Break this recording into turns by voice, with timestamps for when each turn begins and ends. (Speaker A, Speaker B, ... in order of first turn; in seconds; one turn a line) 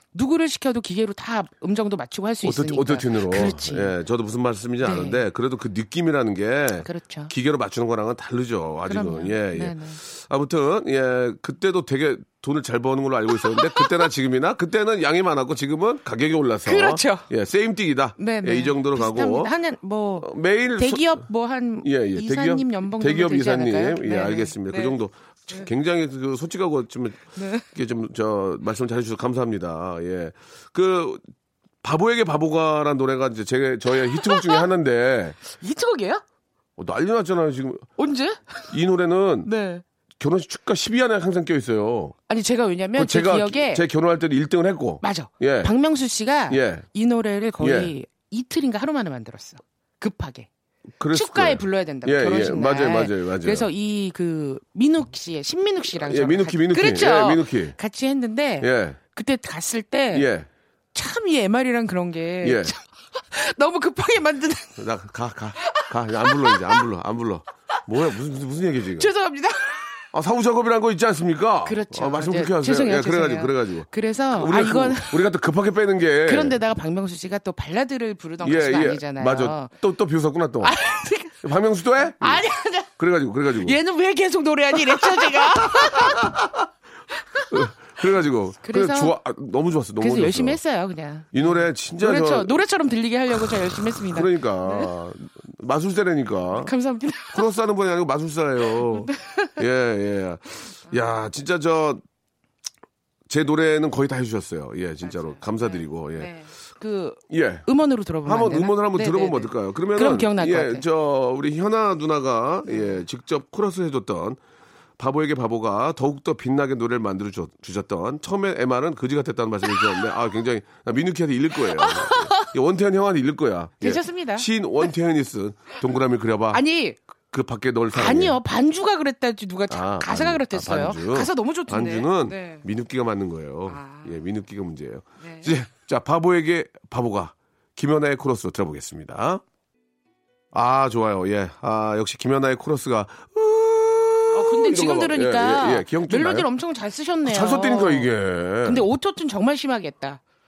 Speaker A: 0.1-3.9
Speaker B: 2.4-19.5
Speaker A: 4.8-5.2
Speaker A: 6.8-7.3
Speaker A: 8.9-10.0
Speaker A: 13.5-14.0
Speaker A: 16.6-17.3
Speaker A: 18.2-25.0
Speaker B: 20.2-21.2
Speaker B: 21.8-31.2
Speaker A: 27.4-27.6
Speaker B: 31.8-35.4
Speaker A: 34.1-34.6
Speaker A: 35.5-36.2
Speaker B: 36.8-37.9
Speaker A: 38.0-38.7
Speaker B: 38.7-39.5
Speaker A: 39.4-39.8
Speaker B: 40.2-42.1
Speaker A: 42.3-43.8
Speaker B: 42.9-45.7
Speaker A: 45.0-50.5
Speaker B: 46.5-46.9
Speaker B: 47.6-47.9
Speaker B: 51.0-53.7
Speaker A: 51.1-60.3
Speaker B: 55.9-57.8
Speaker B: 58.6-59.0
Speaker B: 60.1-60.5
Speaker A: 60.9-64.8
Speaker B: 62.4-62.7
Speaker B: 64.8-69.1
Speaker A: 65.7-66.8
Speaker A: 69.0-69.9
Speaker B: 70.1-76.6
Speaker A: 71.6-75.2
Speaker A: 76.2-79.7
Speaker B: 78.4-80.8
Speaker A: 80.6-81.4
Speaker B: 81.4-82.4
Speaker A: 82.2-82.9
Speaker B: 83.0-83.8
Speaker A: 83.5-86.4
Speaker B: 84.7-86.6
Speaker A: 87.3-87.7
Speaker B: 87.5-90.6
Speaker A: 88.6-89.2
Speaker A: 90.0-94.9
Speaker B: 91.3-92.6
Speaker B: 93.9-96.7
Speaker A: 96.5-97.5
Speaker B: 97.3-102.0
Speaker A: 98.7-99.6
Speaker B: 103.3-106.3
Speaker A: 105.0-110.8
Speaker B: 107.3-107.7
Speaker B: 108.2-114.4
Speaker A: 112.7-113.0
Speaker B: 115.0-126.6
Speaker A: 121.7-122.5
Speaker A: 123.8-124.5
Speaker A: 126.5-127.0
Speaker B: 127.3-128.4
Speaker A: 127.9-132.6
Speaker B: 129.7-139.4
Speaker A: 133.7-134.2
Speaker A: 135.2-135.5
Speaker B: 140.5-146.5
Speaker A: 144.3-148.1
Speaker B: 147.2-148.8
Speaker A: 148.6-150.2